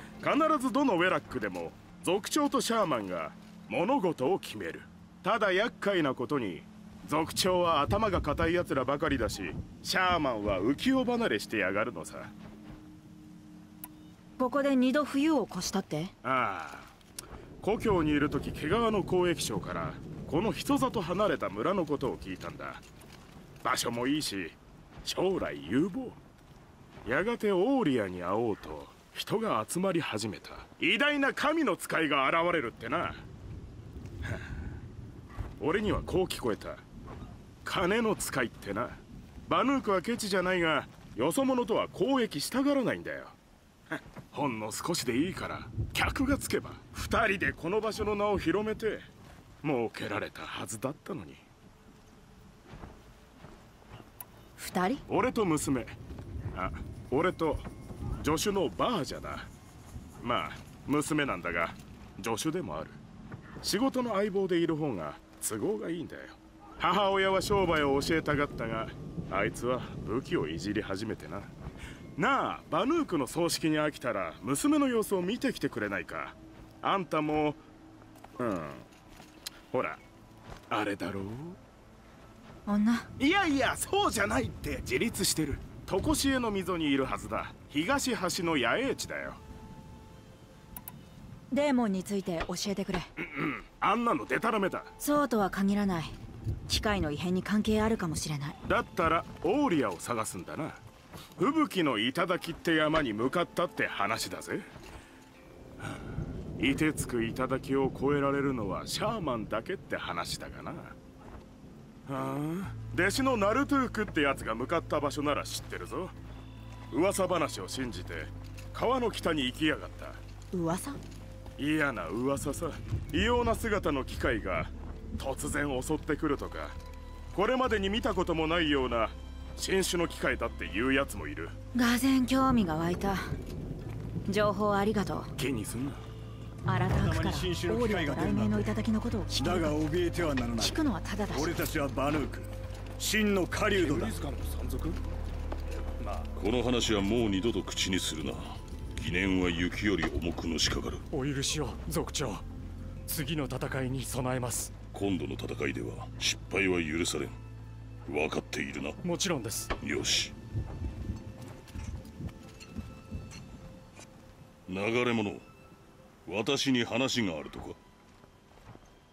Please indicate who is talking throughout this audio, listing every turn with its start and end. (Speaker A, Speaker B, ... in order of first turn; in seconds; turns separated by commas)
Speaker A: 0.2-12.3, Speaker B: 14.4-16.1, Speaker A: 16.2-16.9, Speaker A: 17.6-22.8, Speaker A: 23.6-26.2, Speaker A: 27.1-33.3, Speaker A: 35.6-36.8, Speaker A: 37.6-43.4, Speaker A: 43.9-49.1, Speaker A: 49.6-51.4, Speaker B: 54.6-55.0, Speaker A: 55.1-56.0, Speaker A: 56.5-57.7, Speaker A: 58.2-59.5, Speaker A: 60.2-63.0, Speaker A: 63.6-71.5, Speaker A: 72.2-77.6, Speaker A: 78.4-78.9, Speaker A: 79.7-80.0, Speaker A: 80.7-81.6, Speaker B: 82.7-83.1, Speaker A: 83.2-89.4, Speaker B: 91.5-93.1, Speaker A: 93.2-94.9, Speaker B: 95.0-96.2, Speaker B: 96.7-98.6, Speaker A: 98.7-100.8, Speaker A: 101.4-104.7, Speaker A: 106.6-111.0, Speaker A: 112.1-116.2, Speaker A: 116.9-120.2, Speaker B: 120.5-121.0, Speaker A: 121.6-126.8, Speaker A: 127.3-131.6, Speaker B: 131.7-133.4, Speaker B: 134.3-135.3, Speaker A: 135.4-136.0, Speaker B: 136.7-139.8, Speaker C: 136.9-138.7, Speaker C: 139.3-140.8, Speaker B: 140.6-141.5, Speaker C: 141.3-144.9, Speaker D: 146.4-151.0, Speaker E: 151.1-152.4, Speaker E: 153.1-154.7, Speaker D: 154.9-157.4, Speaker D: 158.1-159.0, Speaker E: 159.0-159.7, Speaker D: 159.8-160.3, Speaker D: 164.7-165.4, Speaker D: 166.3-167.8